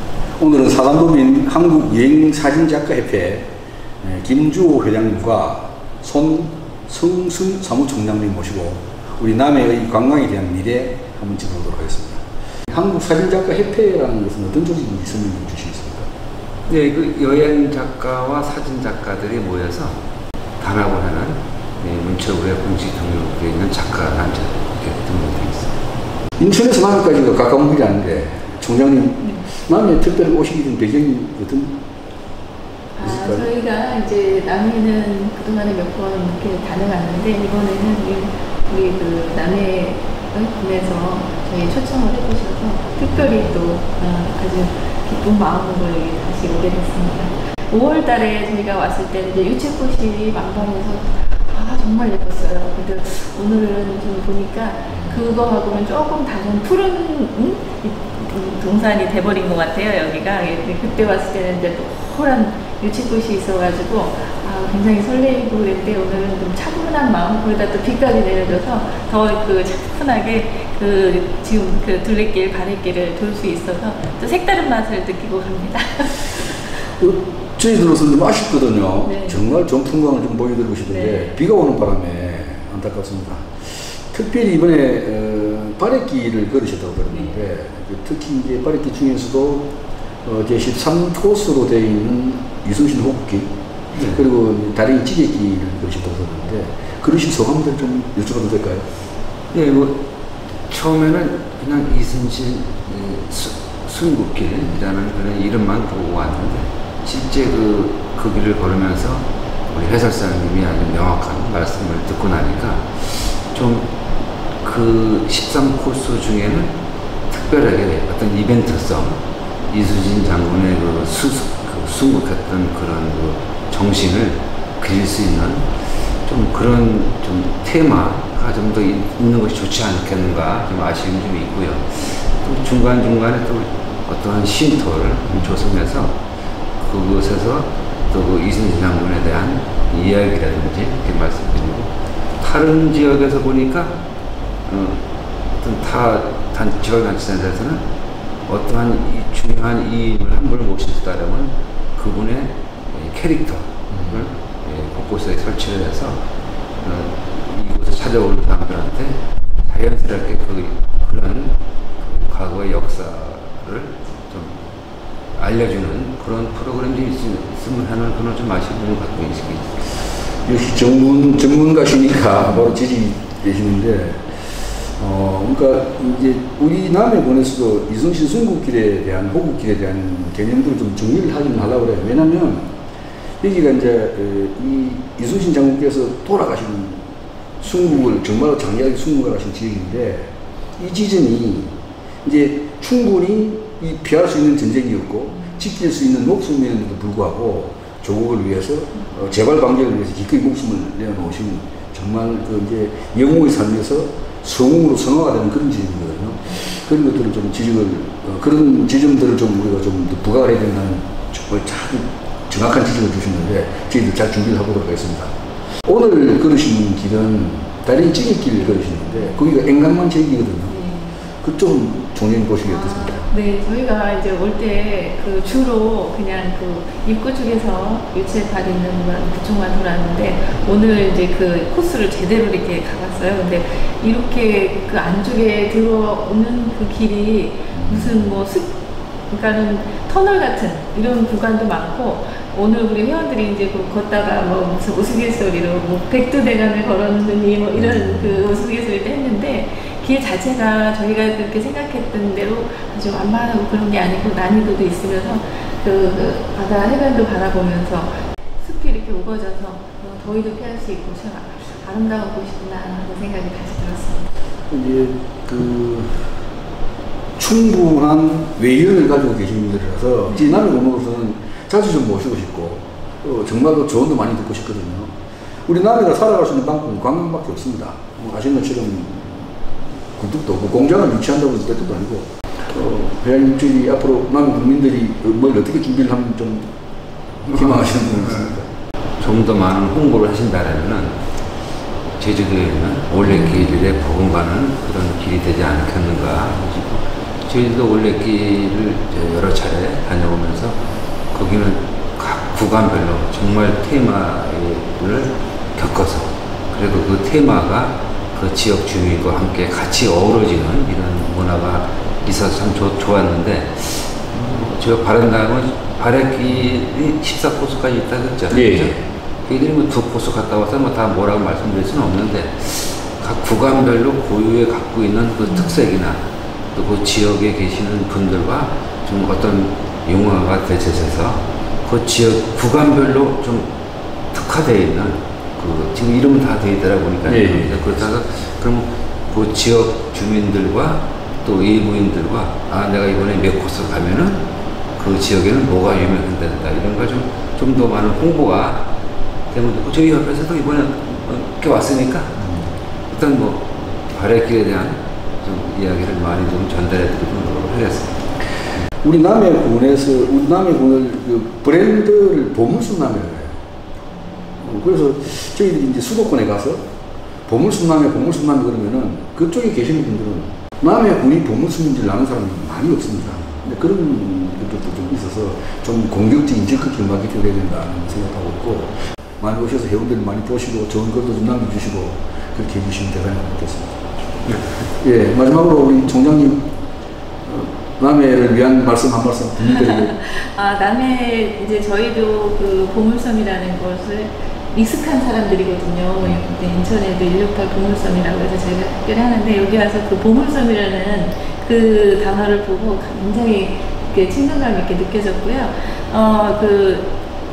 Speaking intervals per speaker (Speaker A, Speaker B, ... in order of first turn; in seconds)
Speaker A: 0.4-3.5, 4.0-16.1, 26.4-31.8, 33.0-33.5, 43.0-43.5, 54.9-55.2, 77.0-89.7, 90.2-93.5, 94.1-98.9, 153.9-154.2, 170.4-174.2, 175.0-182.7, 183.4-187.0, 187.6-215.3, 215.8-220.8, 221.4-223.3, 237.7-238.2, 247.8-248.4, 264.7-266.3, 267.4-275.1, 275.7-279.5, 280.1-286.7, 287.4-288.7, 318.5-319.0, 337.2-338.0, 352.4-352.6, 359.0-363.6, 364.6-366.8, 367.4-384.0, 384.9-386.7, 387.4-390.1
Speaker B: 16.7-19.9, 20.6-25.7, 93.9-94.2, 99.5-100.0, 100.7-113.9, 114.6-116.7, 117.3-125.6, 126.2-136.2, 136.8-143.9, 144.7-145.1, 145.6-147.8, 148.4-156.2, 156.8-164.6, 165.3-169.9, 289.2-291.1, 292.2-300.8, 301.3-326.2, 326.7-333.7, 334.3-344.4, 345.0-348.9, 349.5-352.4, 353.1-358.2
Speaker C: 32.9-76.3, 79.0-79.4, 80.9-81.3, 220.7-221.2, 222.6-238.8, 239.3-264.3, 389.7-407.1